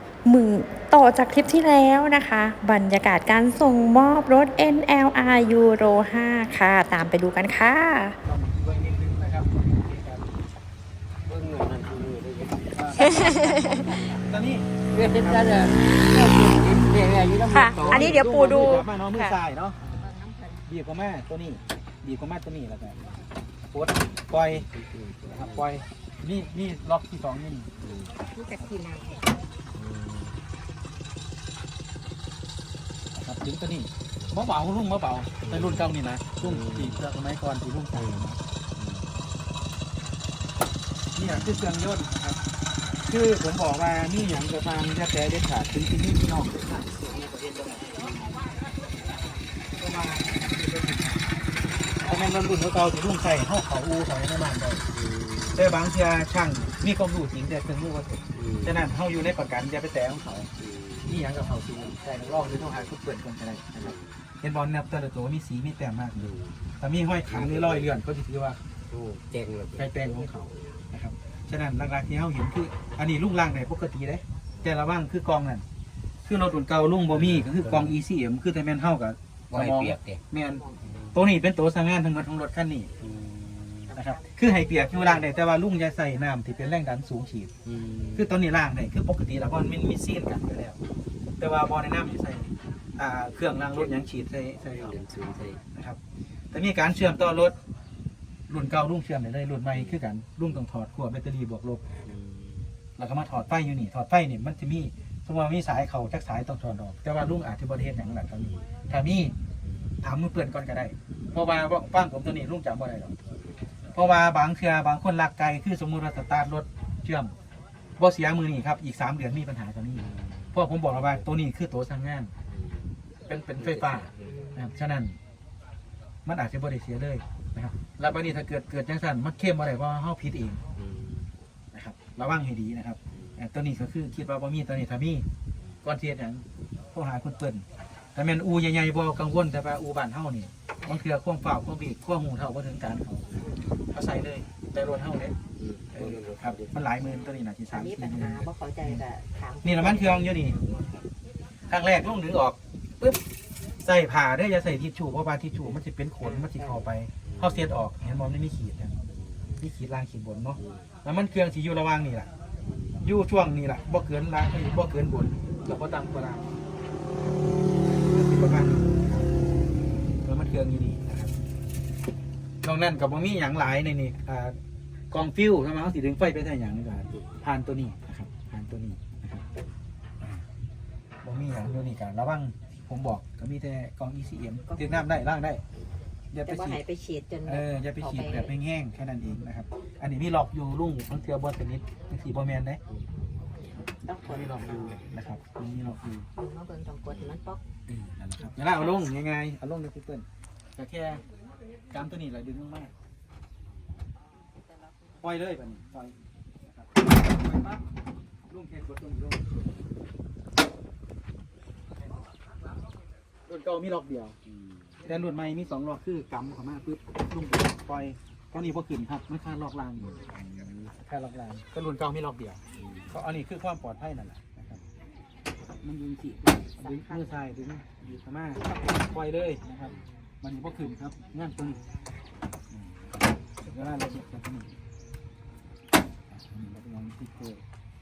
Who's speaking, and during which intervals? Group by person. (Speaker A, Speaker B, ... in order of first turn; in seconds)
Speaker A: 0.2-8.2, 17.5-19.4
Speaker B: 8.2-10.3, 12.7-15.7, 17.7-19.8, 20.7-23.0, 23.7-24.7, 25.3-27.7, 33.1-38.4, 41.2-42.4, 43.0-48.1, 49.8-51.3, 52.0-54.9, 55.5-60.5, 61.0-68.6, 69.8-75.7, 76.2-82.9, 83.9-87.5, 88.2-90.8, 91.4-95.0, 96.5-97.6, 98.5-101.9, 103.0-109.3, 110.0-113.2, 113.9-117.3, 118.0-122.3, 123.3-125.2, 126.3-130.6, 131.7-135.3, 135.8-143.4, 143.9-145.4, 145.9-149.0, 149.6-150.6, 151.7-153.2, 153.8-159.0, 159.6-162.3, 163.0-166.6, 167.2-169.3, 170.2-171.4, 172.6-174.6, 175.1-179.4, 181.2-185.6, 186.3-186.8, 187.4-192.8, 194.2-196.3, 198.2-201.2, 201.9-202.9, 205.2-207.8, 208.5-209.7, 213.5-214.4, 215.0-220.2, 220.9-224.8, 225.8-231.8, 233.6-234.8, 236.3-237.6
Speaker C: 11.3-12.6, 14.9-18.2, 24.6-25.5, 27.9-28.1, 29.8-30.3, 36.4-36.9, 38.8-39.1, 55.0-55.6, 58.4-58.7, 60.6-61.0, 66.3-66.7, 67.4-67.7, 68.9-69.9, 77.2-77.9, 79.5-80.2, 83.1-83.9, 87.7-88.2, 94.8-95.6, 102.1-102.5, 120.1-120.5, 122.5-122.8, 123.7-124.4, 130.8-131.3, 145.6-146.7, 220.2-220.8, 222.8-223.1
Speaker D: 19.9-20.6, 28.3-29.2, 83.9-84.4, 147.7-149.8, 186.5-188.5, 193.9-195.0, 196.4-197.6